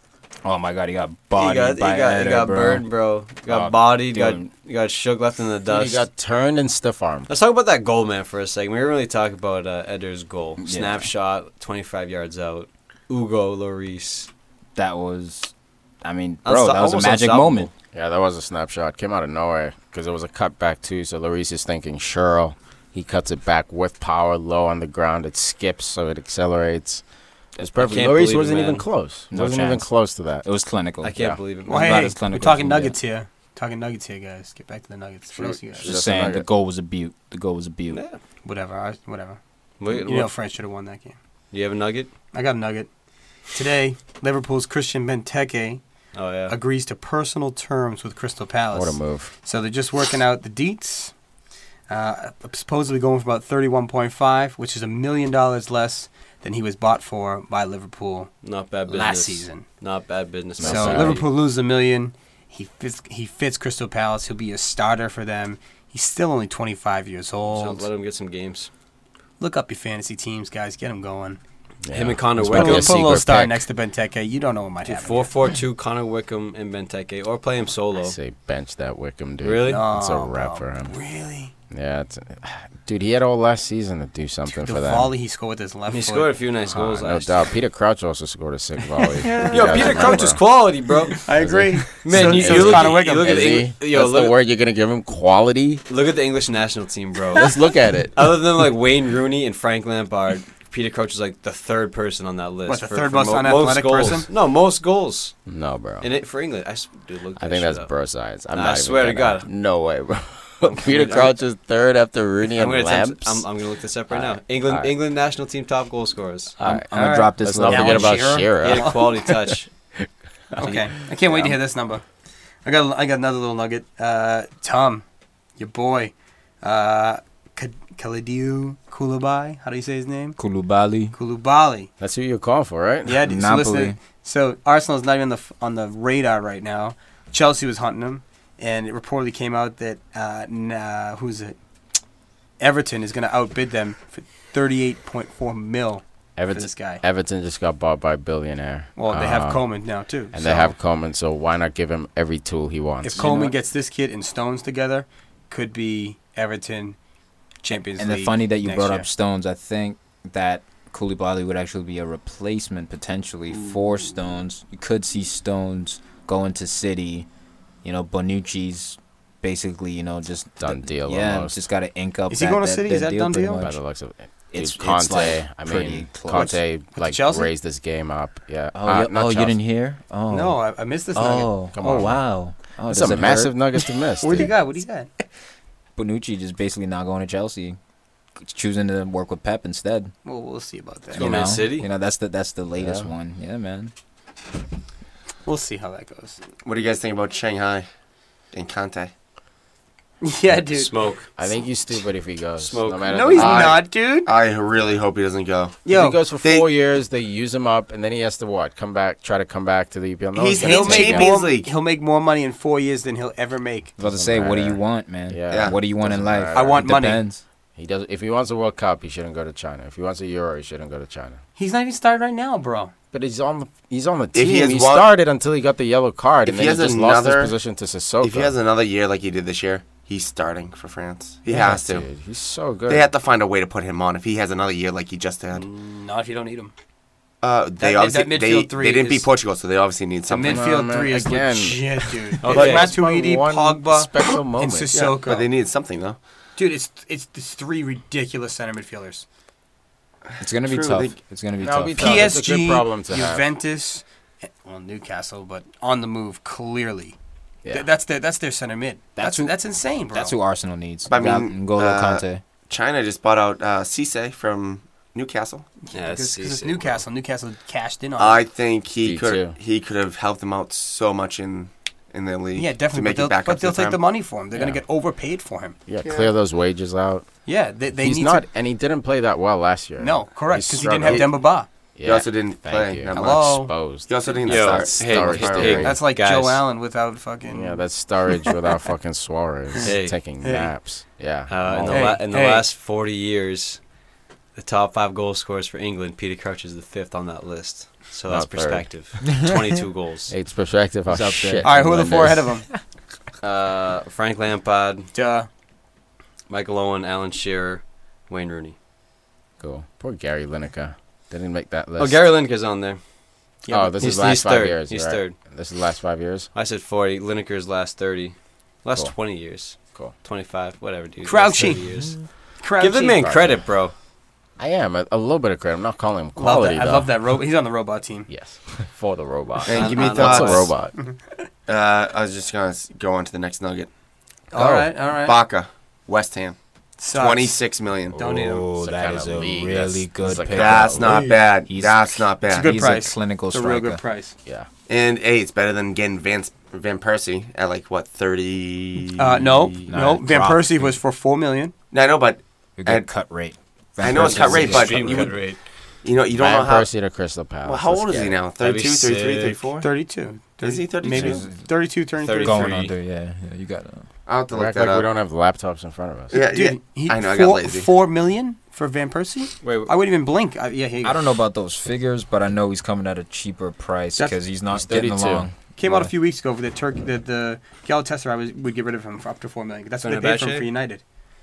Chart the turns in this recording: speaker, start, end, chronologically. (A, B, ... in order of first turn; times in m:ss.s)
0:00.4-0:02.8 A
0:01.3-0:06.0 B
0:03.5-0:04.5 A
0:05.6-0:07.3 C
0:07.3-0:14.3 B
0:10.6-0:11.1 A
0:14.8-0:15.5 A
0:16.0-0:17.7 A
0:16.4-0:17.7 B
0:17.9-0:27.0 C
0:27.6-0:28.0 A
0:27.6-0:30.4 C
0:27.8-0:28.9 B
0:29.3-0:29.9 A
0:30.4-0:33.0 A
0:31.0-0:32.1 B
0:31.1-0:31.4 C
0:31.7-0:35.9 D
0:35.4-0:36.5 C
0:35.8-0:38.0 A
0:37.9-0:38.2 B
0:38.4-0:41.2 D
0:39.8-0:40.3 B
0:41.5-0:42.1 B
0:42.3-0:42.9 D
0:43.5-0:45.8 D
0:46.1-0:46.6 B
0:46.5-0:51.1 D
0:48.7-0:49.3 C
0:51.9-0:58.3 D
0:58.4-1:01.3 B
0:58.9-0:59.5 A
0:59.3-0:59.6 D
1:00.6-1:01.2 C
1:00.6-1:07.9 D
1:07.5-1:08.7 B
1:09.4-1:11.4 D
1:11.8-1:13.6 C
1:11.9-1:13.0 B
1:12.5-1:15.3 D
1:14.8-1:18.2 B
1:18.0-1:20.9 C
1:19.4-1:19.8 B
1:19.6-1:21.5 D
1:21.7-1:25.1 C
1:24.6-1:26.4 D
1:25.9-1:27.5 B
1:26.7-1:30.4 C
1:29.0-1:30.3 D
1:29.4-1:31.3 B
1:31.2-1:33.6 D
1:31.4-1:35.8 C
1:31.8-1:34.4 B
1:35.9-1:37.5 B
1:37.3-1:38.3 C
1:38.1-1:45.4 B
1:42.7-1:44.3 D
1:45.4-1:46.1 C
1:46.0-1:47.9 B
1:47.4-1:53.4 C
1:48.5-1:49.5 B
1:50.6-1:51.4 B
1:52.4-1:56.6 B
1:54.1-1:54.9 C
1:56.6-1:56.8 C
1:56.6-1:58.3 A
1:56.9-1:59.0 D
1:57.4-1:59.5 C
1:58.6-1:59.7 B
2:00.5-2:02.0 D
2:00.6-2:00.9 B
2:02.6-2:05.0 D
2:05.6-2:10.4 D
2:10.4-2:11.1 A
2:11.1-2:11.9 D
2:12.0-2:13.2 C
2:13.0-2:21.6 D
2:13.2-2:14.0 A
2:22.6-2:27.0 D
2:26.4-2:29.8 C
2:29.0-2:30.7 D
2:30.3-2:33.3 C
2:33.0-2:37.0 D
2:33.2-2:33.5 A
2:37.6-2:39.1 D
2:38.0-2:47.3 A
2:47.8-2:53.8 A
2:50.6-2:51.6 C
2:52.3-2:53.6 D
2:53.6-2:59.6 C
2:54.5-2:56.6 A
2:56.3-2:57.5 D
2:58.7-3:00.6 A
3:00.3-3:02.1 D
3:01.1-3:03.6 A
3:01.7-3:02.2 C
3:02.9-3:04.5 C
3:04.2-3:05.1 D
3:06.0-3:07.8 A
3:08.4-3:10.1 A
3:10.2-3:11.5 D
3:11.1-3:13.9 A
3:11.1-3:11.9 B
3:12.8-3:13.1 C
3:15.4-3:16.4 D
3:16.6-3:17.9 E
3:18.5-3:19.1 E
3:20.2-3:21.0 D
3:20.7-3:21.3 B
3:21.4-3:23.8 C
3:22.6-3:23.3 B
3:23.0-3:24.3 D
3:23.4-3:25.8 E
3:25.8-3:26.2 D
3:25.9-3:31.3 C
3:26.4-3:26.7 E
3:30.3-3:31.7 E
3:30.5-3:33.9 D
3:34.0-3:37.4 A
3:34.0-3:36.8 C
3:35.5-3:35.8 E
3:36.5-3:37.2 D
3:37.8-3:41.4 C
3:41.6-3:42.9 D
3:43.1-3:48.5 C
3:44.3-3:45.0 E
3:46.4-3:47.5 E
3:48.2-3:52.1 E
3:51.5-3:53.1 C
3:52.9-3:55.6 E
3:55.5-3:56.7 D
3:57.4-4:00.6 E
3:57.8-3:59.3 D
4:00.3-4:05.5 D
4:00.3-4:05.0 C
4:02.4-4:02.9 B
4:04.9-4:06.2 E
4:06.6-4:09.2 D
4:10.4-4:12.4 A
4:10.6-4:11.1 E
4:11.6-4:13.5 C
4:12.0-4:14.0 D
4:14.5-4:17.2 D
4:17.7-4:20.4 D
4:19.2-4:19.6 A
4:20.1-4:22.4 A
4:21.1-4:25.7 E
4:25.9-4:28.4 D
4:25.9-4:27.0 B
4:28.2-4:34.0 E
4:29.0-4:29.6 C
4:32.5-4:35.8 D
4:34.5-4:34.8 C
4:35.9-4:37.3 C
4:36.0-4:36.3 E
4:37.4-4:38.4 D
4:38.0-4:41.4 C
4:40.0-4:41.7 D
4:41.9-4:46.0 C
4:42.0-4:45.9 E
4:43.1-4:43.7 D
4:44.4-4:46.6 B
4:45.8-4:47.8 D
4:47.5-4:52.1 C
4:49.8-4:50.2 B
4:50.4-4:50.7 D
4:51.5-4:53.8 B
4:51.9-4:52.7 D
4:54.6-5:00.3 B
4:58.3-4:58.9 C
5:00.3-5:02.4 C
5:01.1-5:01.8 A
5:01.6-5:02.7 D
5:03.4-5:05.1 B
5:05.1-5:05.5 D
5:06.5-5:08.8 B
5:09.6-5:12.2 C
5:12.0-5:13.0 B
5:13.6-5:14.2 D
5:13.7-5:16.5 C
5:14.0-5:15.4 B
5:16.5-5:22.2 B
5:21.2-5:22.1 D
5:22.6-5:23.3 D
5:22.8-5:23.9 B
5:23.2-5:23.6 C
5:24.6-5:27.1 C
5:26.4-5:28.3 D
5:28.3-5:30.9 C
5:29.6-5:30.7 E
5:29.7-5:30.7 B
5:31.7-5:33.9 E
5:34.5-5:35.4 D
5:35.1-5:36.6 E
5:37.0-5:37.6 D
5:37.1-5:38.6 E
5:38.2-5:44.0 A
5:38.4-5:41.2 C
5:40.5-5:42.8 E
5:42.5-5:44.4 D
5:44.9-5:49.8 E
5:49.2-5:51.7 D
5:49.9-5:51.0 A
5:51.9-5:53.1 E
5:52.8-5:55.3 A
5:54.0-5:55.5 E
5:54.1-5:55.6 B
5:56.0-5:56.9 E
5:56.3-5:58.4 C
5:57.6-5:59.9 E
5:58.6-5:59.6 B
5:59.8-6:02.9 D
6:00.6-6:01.5 E
6:01.1-6:01.6 A
6:02.2-6:02.9 B
6:02.4-6:04.0 A
6:04.2-6:05.1 E
6:04.5-6:06.4 C
6:06.3-6:07.9 E
6:06.4-6:11.2 D
6:09.6-6:09.9 B
6:11.0-6:16.1 A
6:14.7-6:15.5 C
6:15.8-6:21.0 D
6:20.0-6:20.7 B